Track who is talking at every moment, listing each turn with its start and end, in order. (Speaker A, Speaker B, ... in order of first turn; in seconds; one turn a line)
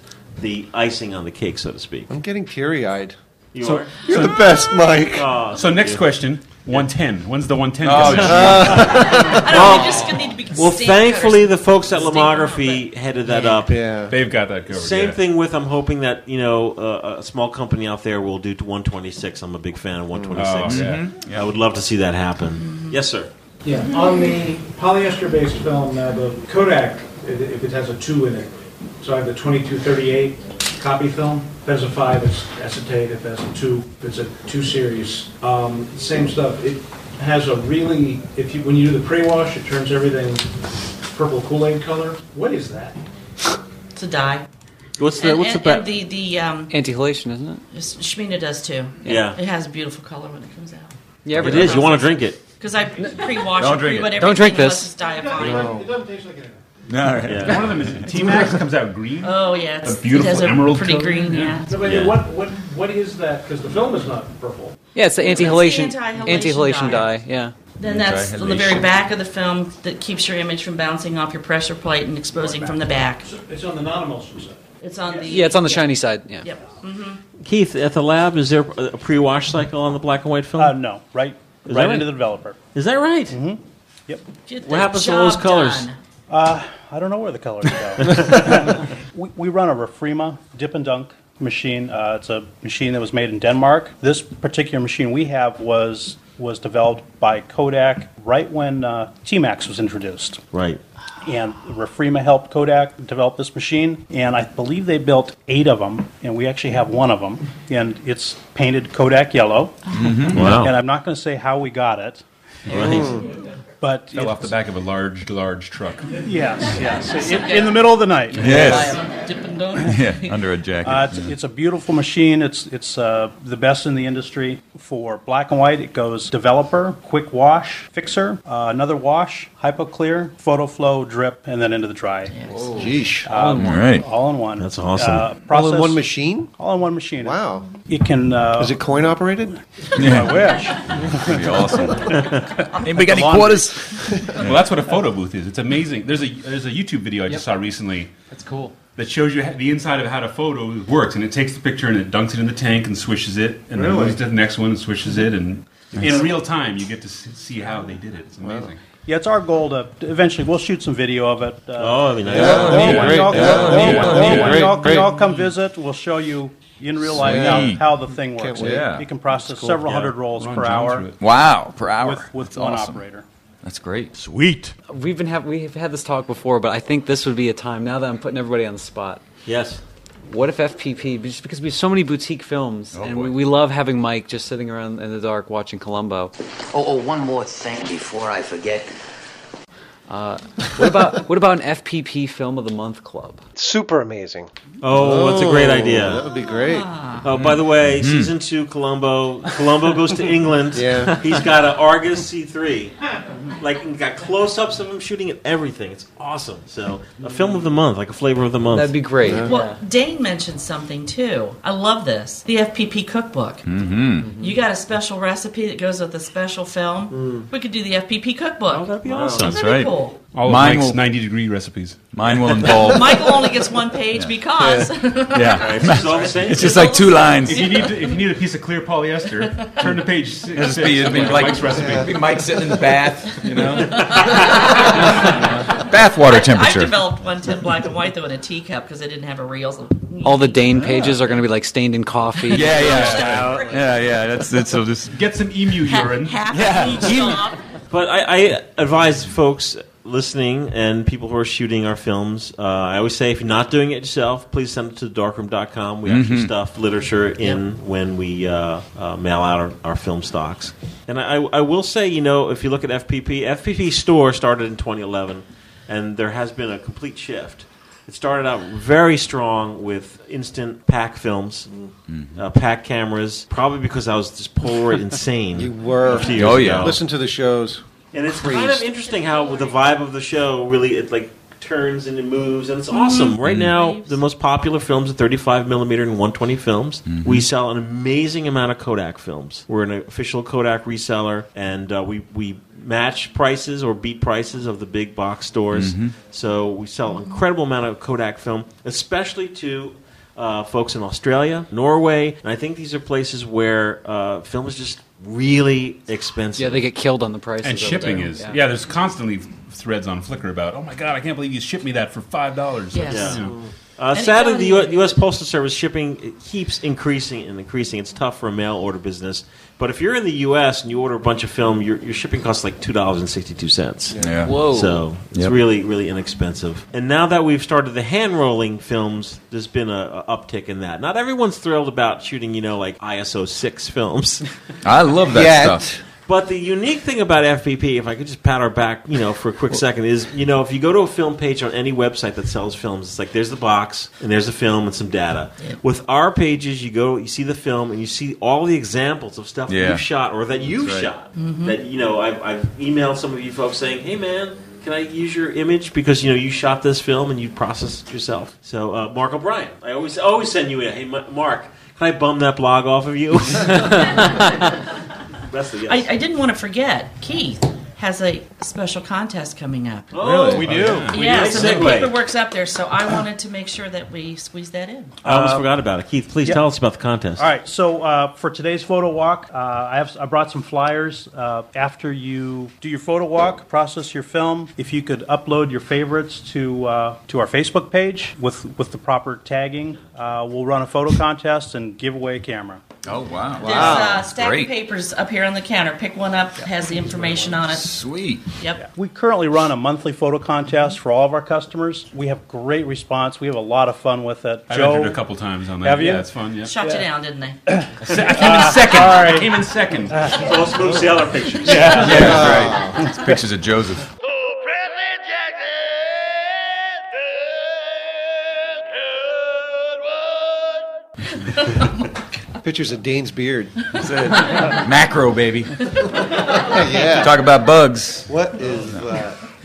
Speaker A: 0.4-2.1
Speaker B: 2.1-3.2
Speaker A: 3.5-4.0
Speaker B: 4.0-5.3
Speaker C: 4.1-4.5
Speaker A: 5.1-6.1
Speaker C: 5.5-9.2
Speaker D: 7.8-8.8
Speaker B: 8.1-9.4
Speaker E: 9.0-13.7
Speaker A: 9.0-13.8
Speaker B: 13.7-14.2
Speaker C: 14.1-15.2
Speaker A: 14.7-23.3
Speaker B: 20.1-20.6
Speaker C: 20.4-21.1
Speaker D: 20.5-21.5
Speaker E: 22.6-23.0
Speaker F: 23.6-40.5
Speaker F: 41.0-43.0
Speaker E: 44.0-44.5
Speaker A: 45.0-45.9
Speaker E: 45.2-46.8
Speaker G: 46.7-47.6
Speaker E: 47.7-55.7
Speaker A: 49.0-49.4
Speaker G: 51.2-52.0
Speaker A: 51.4-52.4
Speaker G: 53.0-53.2
Speaker D: 53.5-54.4
Speaker G: 54.2-54.9
Speaker F: 55.0-56.6
Speaker B: 55.4-55.8
Speaker D: 56.9-58.1
Speaker A: 57.3-57.7
Speaker C: 57.4-61.6
Speaker E: 59.2-61.9
Speaker F: 61.6-64.8
Speaker A: 61.8-62.2
Speaker G: 65.0-67.5
Speaker E: 65.2-67.2
Speaker E: 67.8-73.3
Speaker D: 67.8-68.9
Speaker F: 73.2-75.3
Speaker E: 74.8-77.2
Speaker G: 75.2-76.5
Speaker A: 77.4-80.8
Speaker H: 80.6-82.6
Speaker A: 81.7-82.2
Speaker A: 82.7-83.4
Speaker H: 83.3-84.2
Speaker E: 84.5-86.0
Speaker A: 84.7-85.9
Speaker H: 86.3-100.4
Speaker A: 88.1-88.4
Speaker A: 100.5-100.8
Speaker H: 101.2-112.2
Speaker D: 109.9-110.7
Speaker A: 110.3-110.8
Speaker A: 112.7-113.1
Speaker B: 112.7-113.2
Speaker E: 112.7-113.0
Speaker H: 113.8-114.6
Speaker C: 114.1-116.1
Speaker H: 116.2-119.0
Speaker E: 117.2-120.5
Speaker D: 118.4-119.0
Speaker D: 119.8-121.3
Speaker H: 120.8-132.3
Speaker E: 132.3-132.7
Speaker G: 132.7-133.7
Speaker B: 132.8-133.3
Speaker H: 133.2-138.8
Speaker D: 133.5-134.1
Speaker A: 134.6-135.3
Speaker B: 135.5-136.5
Speaker B: 137.2-137.7
Speaker B: 138.6-139.6
Speaker D: 139.9-142.2
Speaker H: 140.0-144.3
Speaker D: 142.8-144.6
Speaker C: 144.4-148.1
Speaker G: 148.3-148.8
Speaker C: 149.0-158.8
Speaker B: 153.7-154.2
Speaker B: 158.4-158.7
Speaker H: 159.1-171.1
Speaker A: 161.8-163.4
Speaker B: 162.3-165.1
Speaker D: 162.4-164.8
Speaker C: 162.8-163.2
Speaker C: 163.7-164.7
Speaker D: 167.2-167.8
Speaker B: 167.2-167.8
Speaker B: 168.3-169.9
Speaker D: 168.6-169.1
Speaker C: 169.9-171.2
Speaker D: 171.2-173.0
Speaker H: 172.0-173.2
Speaker D: 173.6-174.1
Speaker G: 174.9-179.2
Speaker A: 179.5-179.8
Speaker G: 180.3-186.3
Speaker D: 182.9-183.4
Speaker I: 186.7-188.9
Speaker G: 190.1-193.4
Speaker B: 193.6-196.9
Speaker A: 194.8-196.3
Speaker E: 196.3-197.3
Speaker A: 197.2-203.0
Speaker D: 197.3-198.3
Speaker B: 200.7-201.2
Speaker A: 203.6-209.0
Speaker G: 208.7-209.8
Speaker B: 209.2-209.5
Speaker E: 209.4-213.7
Speaker D: 213.7-214.3
Speaker G: 214.2-214.6
Speaker E: 214.4-220.2
Speaker B: 217.1-217.5
Speaker A: 218.7-219.6
Speaker B: 219.1-219.5
Speaker D: 219.4-221.0
Speaker C: 220.3-222.3
Speaker D: 222.1-223.5
Speaker E: 222.8-226.0
Speaker B: 224.6-224.9
Speaker D: 225.3-227.9
Speaker A: 225.5-226.9
Speaker E: 226.5-228.2
Speaker C: 227.4-232.2
Speaker E: 229.5-229.9
Speaker D: 230.5-237.1
Speaker B: 231.7-232.2
Speaker E: 233.7-241.4
Speaker G: 240.2-243.6
Speaker D: 240.7-241.2
Speaker E: 242.5-243.9
Speaker D: 242.5-245.2
Speaker C: 243.1-243.4
Speaker C: 245.1-246.5
Speaker E: 245.8-247.6
Speaker D: 246.5-247.2
Speaker A: 247.9-271.7
Speaker D: 256.1-256.5
Speaker D: 272.1-272.4
Speaker A: 272.4-277.0
Speaker B: 275.6-278.9
Speaker D: 276.4-277.0
Speaker A: 278.1-306.9
Speaker E: 282.9-284.2
Speaker D: 283.4-283.7
Speaker D: 287.1-287.5
Speaker D: 295.7-296.2
Speaker G: 306.6-308.6
Speaker C: 307.6-313.6
Speaker E: 312.9-313.4
Speaker A: 313.1-313.4
Speaker A: 314.0-334.4
Speaker E: 314.1-315.2
Speaker B: 324.1-324.4
Speaker D: 324.2-324.7
Speaker G: 324.4-325.0
Speaker D: 334.8-335.9
Speaker B: 335.3-336.0
Speaker A: 336.3-364.8
Speaker D: 349.7-350.0
Speaker D: 350.7-351.1
Speaker E: 351.4-351.8
Speaker A: 365.5-366.1
Speaker E: 365.9-370.1
Speaker A: 370.1-372.2
Speaker B: 370.2-371.6
Speaker C: 370.5-371.5
Speaker E: 371.1-375.2
Speaker H: 375.2-375.7
Speaker A: 375.2-377.5
Speaker H: 377.4-392.8
Speaker D: 393.1-394.7
Speaker E: 393.6-398.0
Speaker B: 393.6-394.3
Speaker D: 397.6-398.4
Speaker H: 398.8-406.3
Speaker C: 404.7-406.7
Speaker E: 406.6-407.6
Speaker H: 407.7-410.5
Speaker C: 408.0-410.3
Speaker A: 410.3-412.4
Speaker H: 411.6-412.4
Speaker B: 411.7-413.1
Speaker D: 412.0-414.1
Speaker B: 422.6-423.8
Speaker D: 424.0-425.8
Speaker B: 426.4-427.4
Speaker D: 426.9-428.3
Speaker B: 428.3-429.4